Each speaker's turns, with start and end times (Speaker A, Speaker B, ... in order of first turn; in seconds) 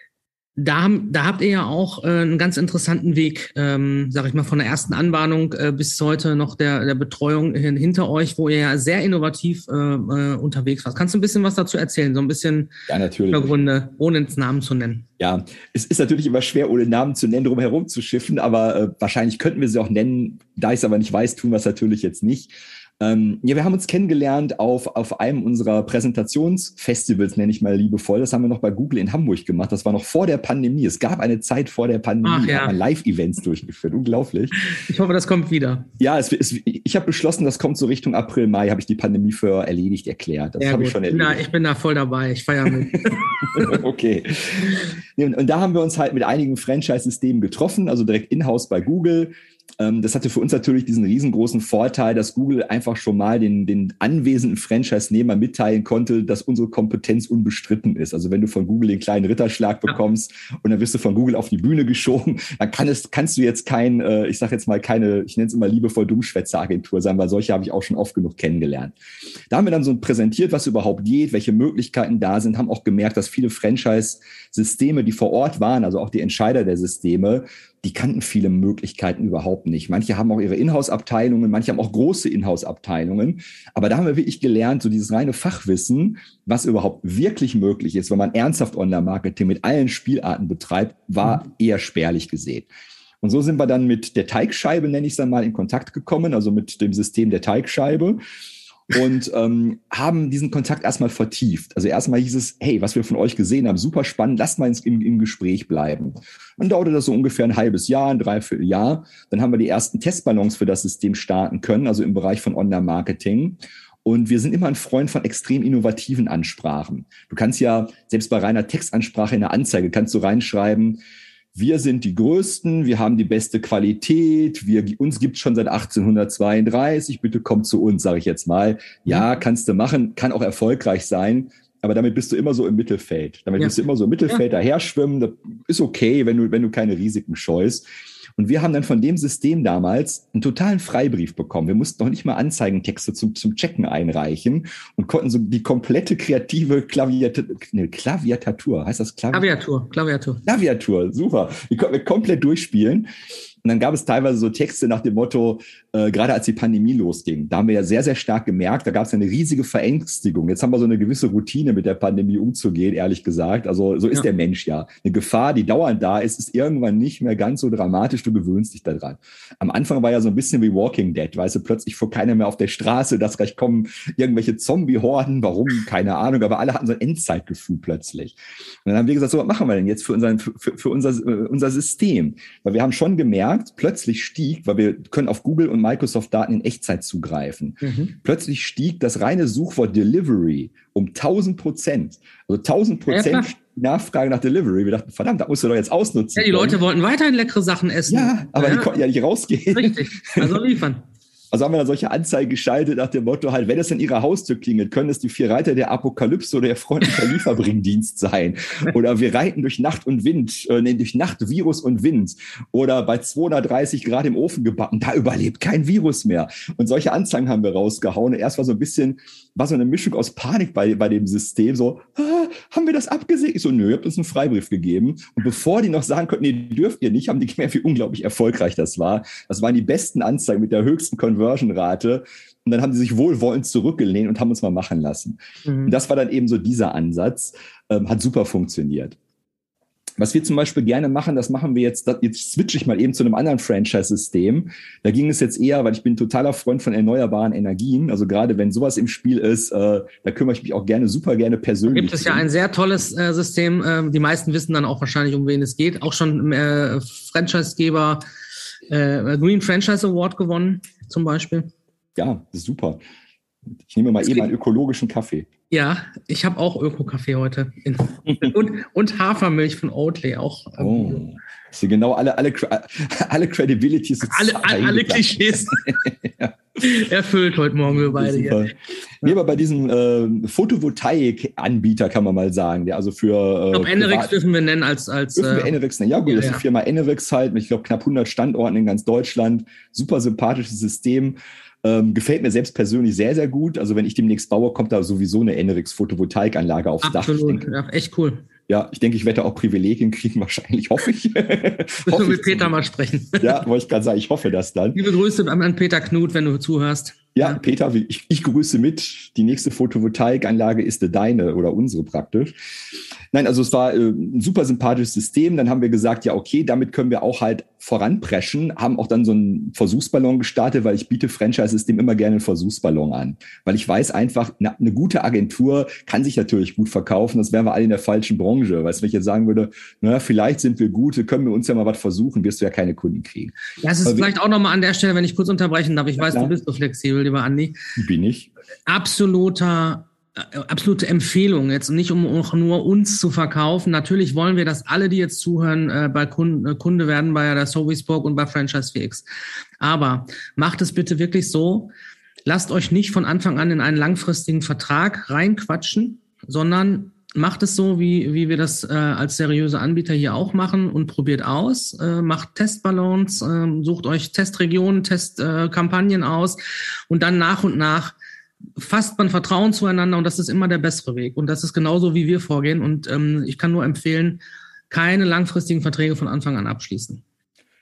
Speaker A: 0.6-12.7, 13.3-15.1, 32.2-32.8, 34.7-35.9, 40.6-43.8, 149.3-150.4, 187.8-188.1, 193.1-193.5, 196.4-198.9, 199.7-201.1, 235.7-236.0, 251.9-258.2, 258.9-261.7, 264.2-264.5, 265.7-271.2, 274.2-275.9, 276.8-278.7, 283.7-286.6, 297.0-298.4, 302.1-303.6, 304.9-307.6, 333.8-337.8, 338.9-349.2, 349.8-351.9, 352.5-368.2, 368.8-377.2
Speaker B: 12.9-13.6, 15.2-34.6, 36.0-41.4, 42.9-69.0, 69.5-92.7, 93.2-98.2, 98.9-121.0, 121.5-149.5, 150.4-153.1, 153.6-196.8, 198.1-200.6, 201.5-239.2, 240.2-252.5, 262.2-263.0, 263.9-265.5, 270.8-276.6, 277.9-284.3, 285.4-297.7, 298.7-302.7, 303.4-305.0, 307.4-312.5, 313.3-334.3, 336.2-336.5, 338.0-338.5